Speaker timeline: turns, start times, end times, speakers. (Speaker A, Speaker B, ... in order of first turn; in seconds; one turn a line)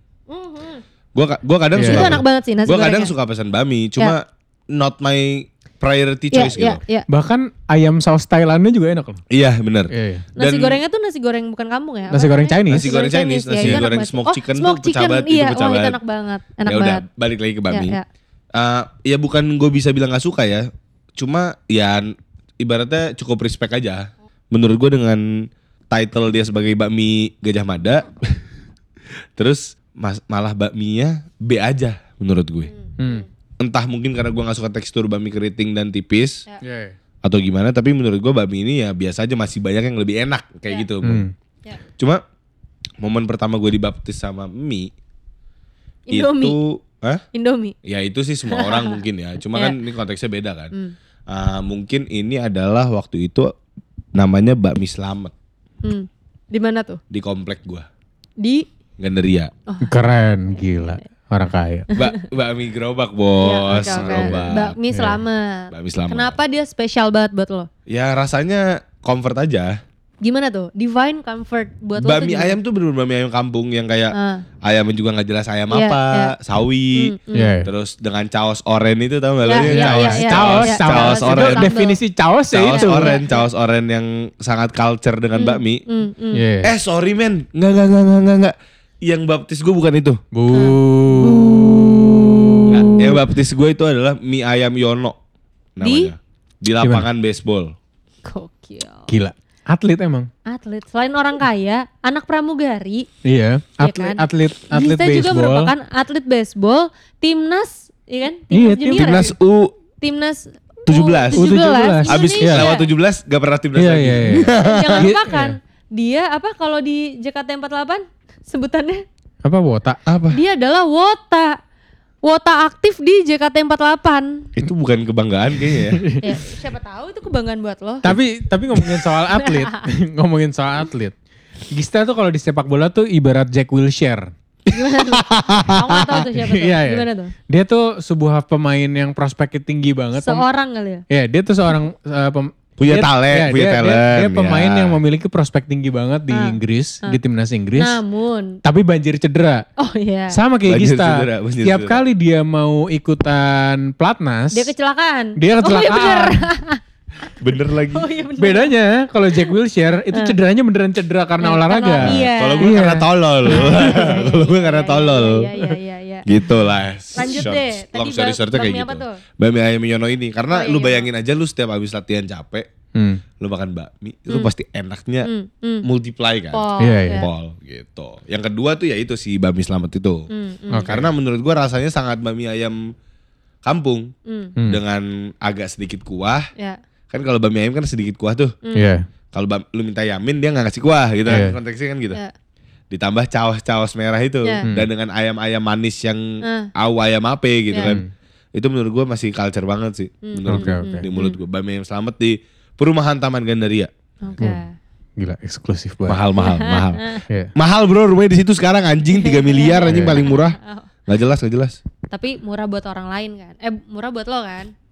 Speaker A: 0.3-0.8
Speaker B: 1.1-6.8
Speaker C: 1.7-2.2
Speaker A: 1.9-3.1
Speaker A: 6.3-7.1
Speaker C: 7.1-9.2
Speaker B: 9.3-10.8
Speaker C: 9.9-10.3
Speaker A: 10.3-17.0
Speaker C: 12.1-12.9
Speaker B: 12.7-16.0
Speaker C: 13.6-13.9
Speaker B: 16.6-18.0
Speaker A: 17.7-18.0
Speaker B: 18.5-28.4
Speaker B: 29.4-32.7
Speaker A: 32.7-33.2
Speaker C: 33.0-33.2
Speaker B: 33.6-36.4
Speaker C: 36.6-37.0
Speaker B: 37.2-41.3
Speaker C: 41.0-41.3
Speaker B: 43.0-44.9
Speaker A: 46.1-46.5
Speaker B: 46.1-47.2
Speaker A: 47.3-47.8
Speaker B: 47.8-50.7
Speaker A: 48.5-49.0
Speaker B: 51.3-53.5
Speaker B: 54.1-55.3
Speaker A: 55.8-57.0
Speaker B: 57.1-57.9
Speaker A: 58.4-58.6
Speaker B: 59.0-59.5
Speaker A: 59.7-59.9
Speaker C: 59.8-61.9
Speaker B: 61.9-64.8
Speaker A: 63.4-67.7
Speaker C: 63.8-65.2
Speaker B: 65.7-66.4
Speaker B: 67.9-69.8
Speaker A: 70.2-72.5
Speaker B: 72.0-81.7
Speaker A: 74.1-74.4
Speaker A: 75.7-76.3
Speaker A: 76.9-77.6
Speaker C: 77.3-77.7
Speaker A: 79.5-82.0
Speaker C: 79.7-83.2
Speaker B: 82.5-85.8
Speaker A: 82.7-83.5
Speaker A: 85.3-86.4
Speaker C: 86.3-86.7
Speaker B: 86.6-90.2
Speaker C: 90.3-92.9
Speaker A: 90.5-92.8
Speaker B: 92.7-95.2
Speaker B: 95.8-97.7
Speaker A: 95.8-96.1
Speaker A: 98.2-99.1
Speaker C: 99.1-100.3
Speaker A: 100.5-103.1
Speaker C: 103.2-105.7
Speaker A: 103.8-109.3
Speaker C: 108.5-109.2
Speaker B: 108.9-109.7
Speaker A: 110.0-112.9
Speaker B: 110.9-111.5
Speaker C: 111.3-112.7
Speaker B: 112.0-115.1
Speaker C: 113.8-115.6
Speaker A: 114.6-119.0
Speaker C: 119.4-120.0
Speaker B: 120.0-120.4
Speaker A: 120.3-121.6
Speaker A: 122.2-124.5
Speaker B: 124.6-126.0
Speaker C: 125.8-126.4
Speaker A: 126.2-128.1
Speaker C: 128.0-131.1
Speaker A: 129.4-129.8
Speaker C: 131.7-134.3
Speaker A: 134.7-137.3
Speaker B: 134.8-136.2
Speaker C: 136.3-140.4
Speaker A: 140.2-141.0
Speaker C: 141.1-148.0
Speaker B: 142.8-145.0
Speaker A: 146.3-147.2
Speaker A: 147.8-148.6
Speaker C: 148.6-149.7
Speaker A: 149.8-150.4
Speaker C: 150.3-154.7
Speaker B: 150.7-152.0
Speaker A: 154.5-156.8
Speaker C: 155.4-156.4
Speaker B: 157.4-158.0
Speaker A: 157.9-158.7
Speaker C: 158.4-164.0
Speaker A: 161.4-162.8
Speaker B: 162.0-165.5
Speaker A: 163.4-166.2
Speaker B: 166.2-172.7
Speaker C: 167.2-167.5
Speaker A: 167.2-169.2
Speaker A: 170.5-171.1
Speaker C: 172.9-173.2
Speaker B: 173.4-175.3
Speaker A: 175.2-175.9
Speaker B: 175.8-180.2
Speaker A: 176.5-177.3
Speaker C: 176.8-177.2
Speaker A: 180.3-180.9
Speaker C: 180.7-181.1
Speaker B: 180.9-182.8
Speaker B: 183.7-184.1
Speaker A: 184.3-184.5
Speaker B: 184.7-186.5
Speaker B: 187.1-188.5
Speaker A: 188.6-188.9
Speaker C: 188.7-189.1
Speaker B: 189.3-192.2
Speaker C: 191.3-191.5
Speaker B: 192.9-198.0
Speaker A: 196.4-196.7
Speaker A: 197.7-198.0
Speaker C: 197.8-198.1
Speaker B: 198.5-204.5
Speaker A: 200.2-201.4
Speaker C: 200.5-201.0
Speaker A: 204.2-204.7
Speaker C: 205.2-206.2
Speaker B: 206.1-211.8
Speaker A: 206.4-207.2
Speaker A: 209.1-210.9
Speaker C: 209.9-210.2
Speaker A: 212.1-214.7